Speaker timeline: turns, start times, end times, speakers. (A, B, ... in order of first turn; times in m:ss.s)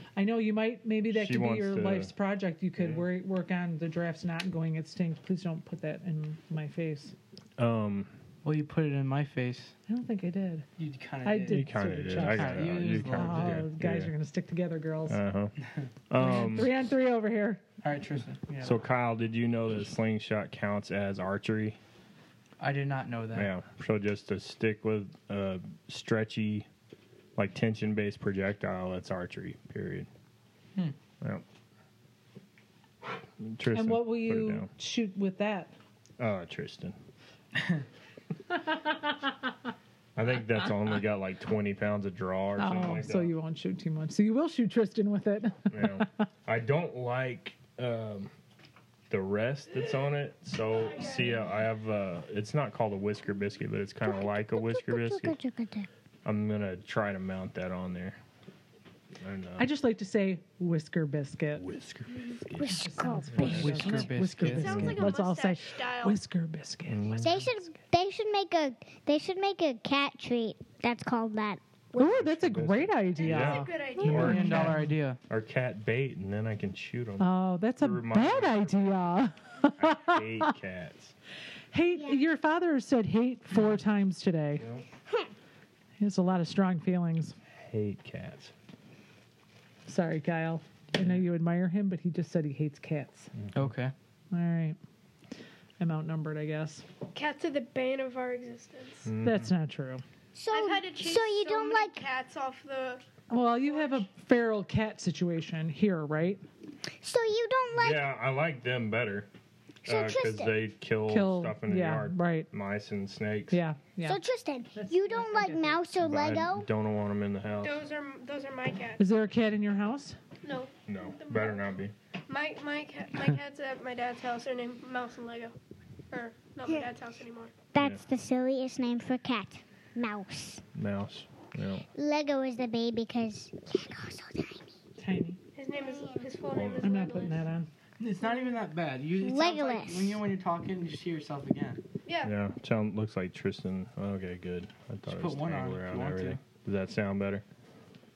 0:00.2-0:07.2 A
0:01.1-0:02.1 B
0:02.8-0:03.1 B
0:07.6-0:08.1 B
0:08.4-0:09.7 C
0:09.9-0:10.7 A
0:10.8-0:13.7 C
0:11.2-0:15.2 A
0:11.5-0:14.1 B
0:15.1-0:15.6 B
0:16.1-0:16.7 B
0:16.2-0:17.6 A
0:17.8-0:18.8 C
0:18.6-0:21.8 B
0:22.6-0:23.5 C
0:23.3-0:26.7 B
0:27.4-0:30.1 B
0:33.4-0:34.7 B
0:33.7-0:35.7 A
0:36.2-0:37.0 B
0:40.2-0:43.3 B
0:42.6-0:46.1 A
0:45.7-0:48.3 B
0:49.1-0:55.4 B
0:50.7-0:51.5 D
0:54.0-0:55.9 E
0:56.2-0:58.2 B
0:59.2-0:59.7 B
0:59.6-1:01.7 A
1:01.6-1:03.9 B
1:02.5-1:04.0 E
1:02.6-1:07.3 A
1:03.4-1:04.9 C
1:04.5-1:06.2 D
1:04.6-1:05.1 B
1:06.9-1:07.5 B
1:07.2-1:12.3 E
1:12.0-1:15.0 A
1:12.2-1:18.9 B
1:13.2-1:14.6 D
1:14.0-1:15.2 C
1:17.2-1:20.5 A
1:19.8-1:21.1 B
1:21.7-1:24.6 A
1:21.9-1:22.2 E
1:24.6-1:24.8 B
1:26.0-1:27.4 A
1:27.6-1:28.5 B
1:29.9-1:33.3 A
1:33.4-1:33.7 B
1:33.5-1:33.9 C
1:34.3-1:34.8 A
1:35.8-1:36.8 A
1:37.1-1:39.1 D
1:39.0-1:39.5 B
1:39.2-1:40.0 A
1:40.4-1:42.0 E
1:40.5-1:43.0 D
1:43.3-1:46.4 A
1:43.7-1:44.0 D
1:47.0-1:48.1 E
1:47.8-1:49.3 B
1:49.8-1:50.6 E
1:49.8-1:53.6 B
1:51.1-1:52.5 A
1:53.5-1:54.2 A
1:54.0-1:56.7 E
1:54.7-1:55.8 A
1:56.0-1:57.8 B
1:57.6-1:59.0 D
1:59.0-2:00.2 A
2:00.4-2:01.8 D
2:00.9-2:01.9 B
2:02.3-2:05.6 D
2:06.1-2:07.5 D
2:07.7-2:10.6 E
2:07.8-2:08.0 B
2:10.8-2:11.9 B
2:12.0-2:14.8 E
2:15.0-2:15.4 A
2:15.6-2:17.4 D
2:15.7-2:16.3 E
2:16.5-2:16.9 B
2:16.8-2:17.7 A
2:18.0-2:21.8 C
2:19.2-2:20.2 E
2:22.1-2:22.3 D
2:22.2-2:27.4 B
2:25.1-2:26.4 C